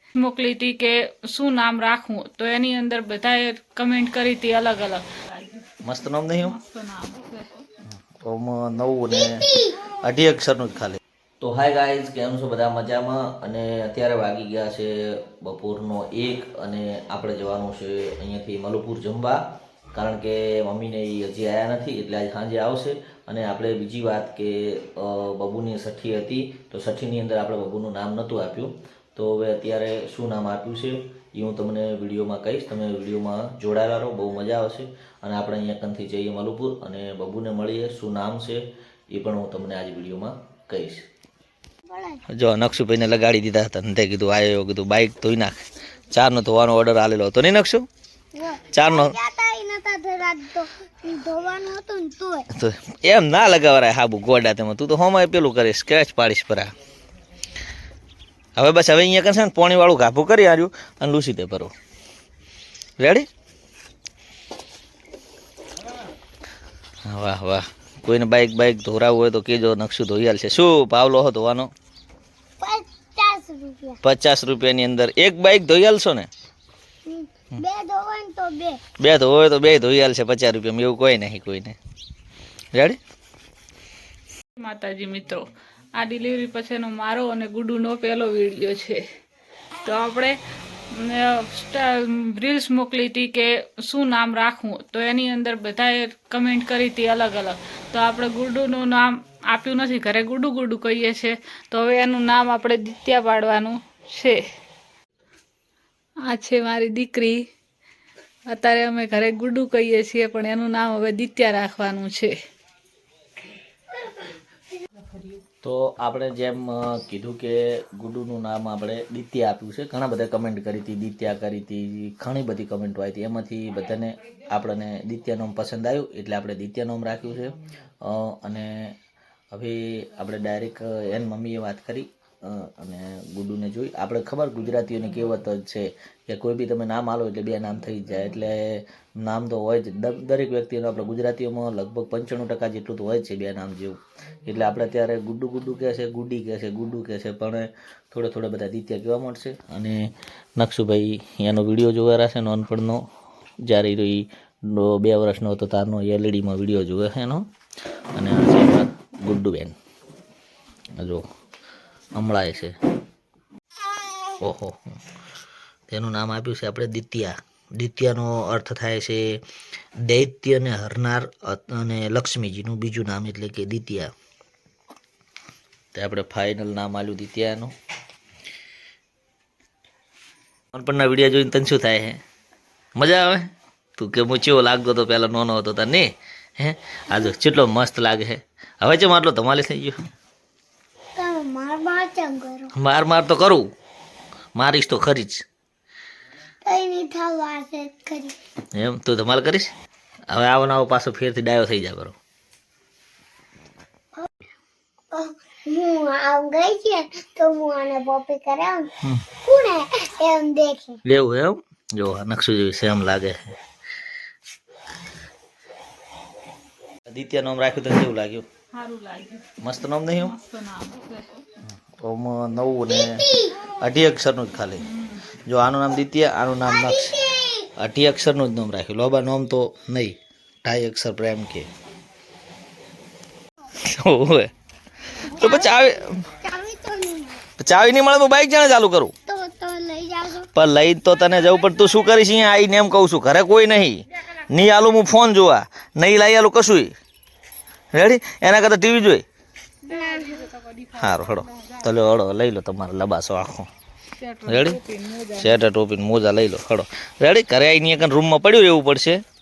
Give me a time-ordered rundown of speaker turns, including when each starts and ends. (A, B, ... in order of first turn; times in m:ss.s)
0:00.2-0:05.7 A
0:05.8-0:06.6 B
0:06.4-0:07.6 A
0:08.2-0:19.4 B
0:09.1-0:09.8 C
0:19.9-0:41.0 B
0:41.9-0:42.2 C
0:42.3-0:45.6 B
0:46.1-0:47.9 B
0:48.4-0:52.5 C
0:48.7-0:49.2 B
0:52.6-0:56.7 B
0:58.6-1:01.7 B
1:03.0-1:03.3 B
1:07.1-1:11.7 B
1:12.6-1:14.0 C
1:14.0-1:16.3 B
1:17.1-1:18.8 C
1:19.0-1:21.8 B
1:22.7-1:23.0 B
1:24.6-1:29.0 A
1:29.8-1:30.4 A
1:30.9-1:44.4 A
1:46.3-1:47.4 A
1:48.5-1:52.4 A
1:55.6-2:08.9 B
2:09.5-2:30.0 B
2:30.6-2:33.0 B
2:33.7-2:37.4 B
2:38.2-2:39.8 B
2:41.0-2:41.2 B
2:42.2-2:42.8 B
2:44.4-2:45.0 B
2:45.9-2:49.4 B
2:50.0-2:54.1 B
2:56.0-2:57.7 B
3:00.7-3:02.2 B
3:03.0-3:06.1 B
3:06.6-3:10.1 B
3:11.2-3:12.7 C
3:12.8-3:13.6 B
3:14.6-3:15.4 B
3:16.6-3:18.4 C
3:18.7-3:19.7 B
3:20.3-3:22.2 B
3:25.1-3:28.9 C
3:29.4-3:31.0 C
3:31.1-3:33.6 B
3:37.1-3:38.4 B
3:38.7-3:39.5 A
3:39.6-3:40.4 B
3:40.2-3:41.4 A
3:42.0-3:43.3 B
3:42.9-3:43.6 C
3:43.8-3:44.8 B
3:44.8-3:45.2 A
3:45.5-3:47.2 B
3:46.6-3:47.7 C
3:47.8-3:51.7 B
3:53.8-3:54.5 B
3:55.2-3:56.3 B
3:55.4-3:55.8 C
3:56.4-3:57.4 C
3:57.6-3:59.1 B
3:59.3-4:00.5 C
4:00.5-4:06.9 B
4:07.9-4:09.2 B
4:09.9-4:11.7 A
4:09.9-4:10.4 C
4:11.0-4:13.7 B
4:14.2-4:15.5 A
4:14.5-4:14.8 B
4:15.4-4:19.2 B